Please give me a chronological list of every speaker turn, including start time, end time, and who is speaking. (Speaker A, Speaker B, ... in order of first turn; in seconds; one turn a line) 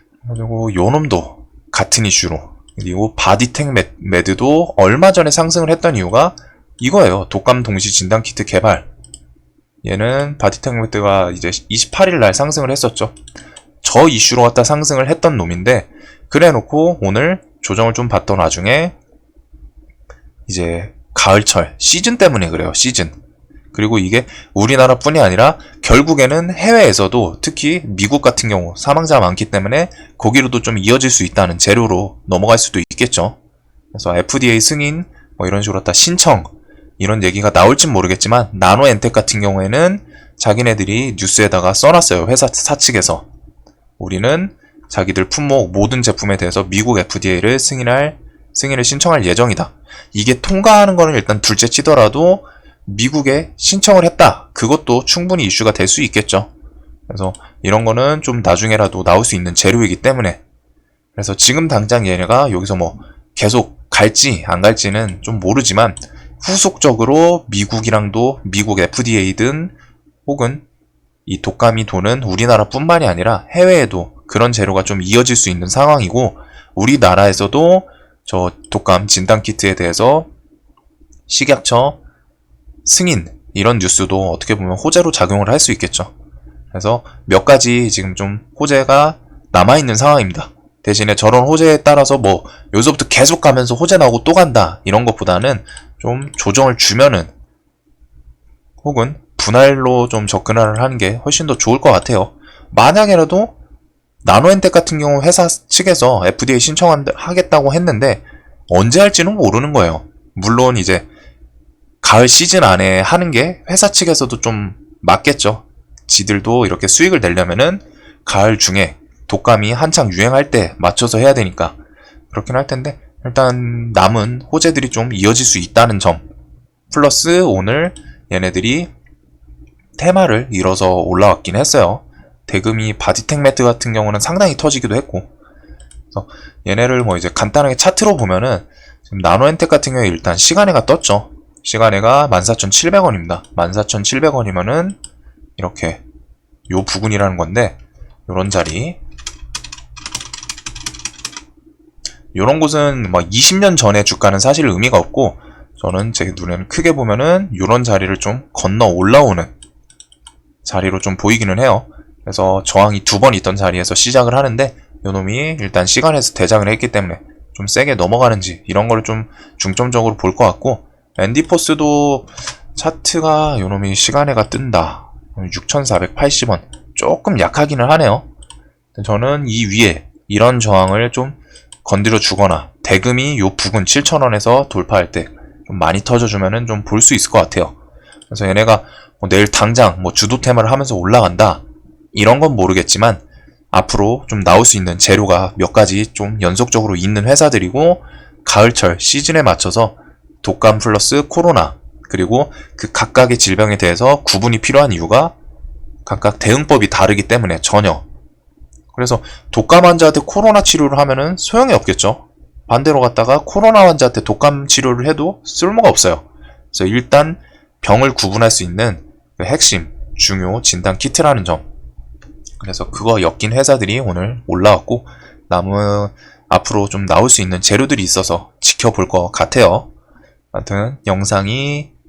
Speaker A: 0.2-8.8
Speaker A: 9.8-13.1
Speaker A: 13.8-18.9
Speaker A: 20.5-23.1
Speaker A: 23.7-33.4
Speaker A: 33.9-43.2
Speaker A: 44.0-56.5
Speaker A: 57.1-60.4
Speaker A: 61.1-69.7
Speaker A: 70.2-70.6
Speaker A: 71.2-80.3
Speaker A: 81.3-82.0
Speaker A: 82.8-86.1
Speaker A: 86.7-97.3
Speaker A: 98.8-103.5
Speaker A: 104.2-111.1
Speaker A: 112.0-121.7
Speaker A: 122.3-126.2
Speaker A: 126.9-128.9
Speaker A: 130.0-135.3
Speaker A: 136.1-145.0
Speaker A: 145.6-146.0
Speaker A: 146.7-149.0
Speaker A: 152.3-159.5
Speaker A: 160.6-178.2
Speaker A: 178.9-187.8
Speaker A: 188.3-191.6
Speaker A: 192.1-205.3
Speaker A: 206.0-208.0
Speaker A: 208.9-221.6
Speaker A: 222.6-229.9
Speaker A: 230.5-231.9